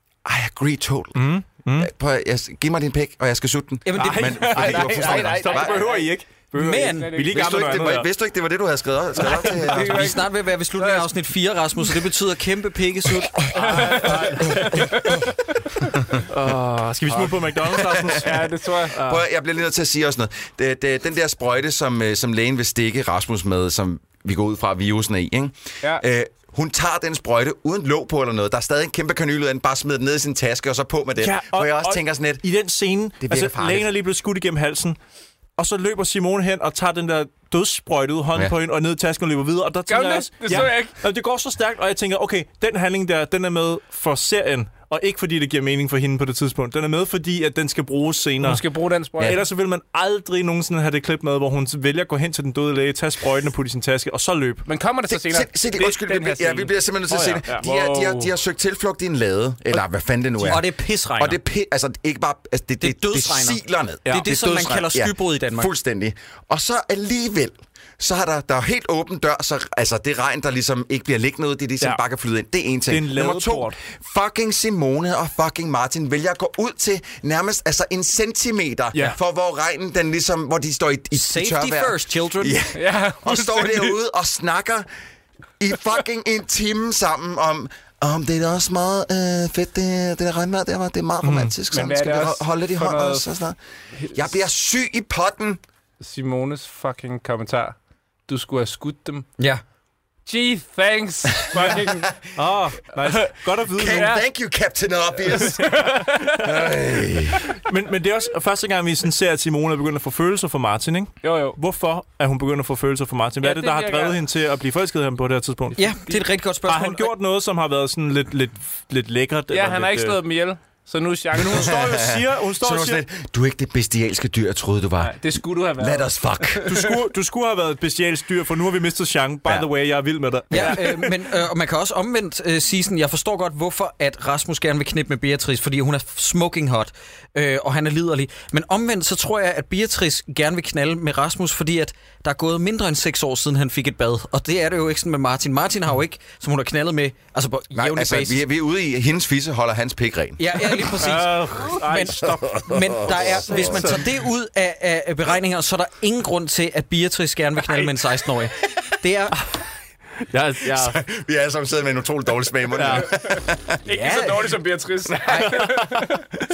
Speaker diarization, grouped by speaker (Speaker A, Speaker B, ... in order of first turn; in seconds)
Speaker A: 0.2-5.9, 7.3-10.2, 17.6-18.4, 18.9-32.4, 33.2-33.9, 55.1-84.9, 85.6-93.6, 94.1-95.6, 101.7-101.9, 103.7-107.4, 121.5-125.2, 125.7-126.8, 147.7-151.2, 152.2-154.0, 160.6-163.8, 165.1-165.7
Speaker B: 1.1-1.9, 4.0-8.1, 13.5-15.2, 16.3-19.2, 31.2-35.0, 35.6-48.6, 49.2-54.6, 57.1-58.3, 64.0-64.8, 72.9-73.8, 91.2-91.5, 102.3-104.2, 107.5-115.9, 116.7-120.2, 121.4-123.0, 126.6-131.1, 150.7-154.1, 160.3-161.0, 162.8-163.1
Speaker C: 3.8-5.2, 6.5-7.2, 9.4-13.5, 60.4-61.4, 62.8-65.7, 81.1-82.6, 115.8-117.1, 130.5-148.4, 150.4-159.4, 163.9-164.5, 165.3-165.6
Speaker D: 4.3-6.1, 6.8-7.9, 9.2-11.1, 13.5-15.8, 18.1-18.9, 39.9-40.9, 48.4-49.4, 54.6-56.7, 82.7-84.0, 91.7-93.3, 96.0-99.2, 100.3-102.1, 103.0-103.3, 103.9-104.2, 105.3-106.5, 111.2-111.6, 113.4-114.2, 119.5-121.8, 125.0-126.9, 162.9-166.2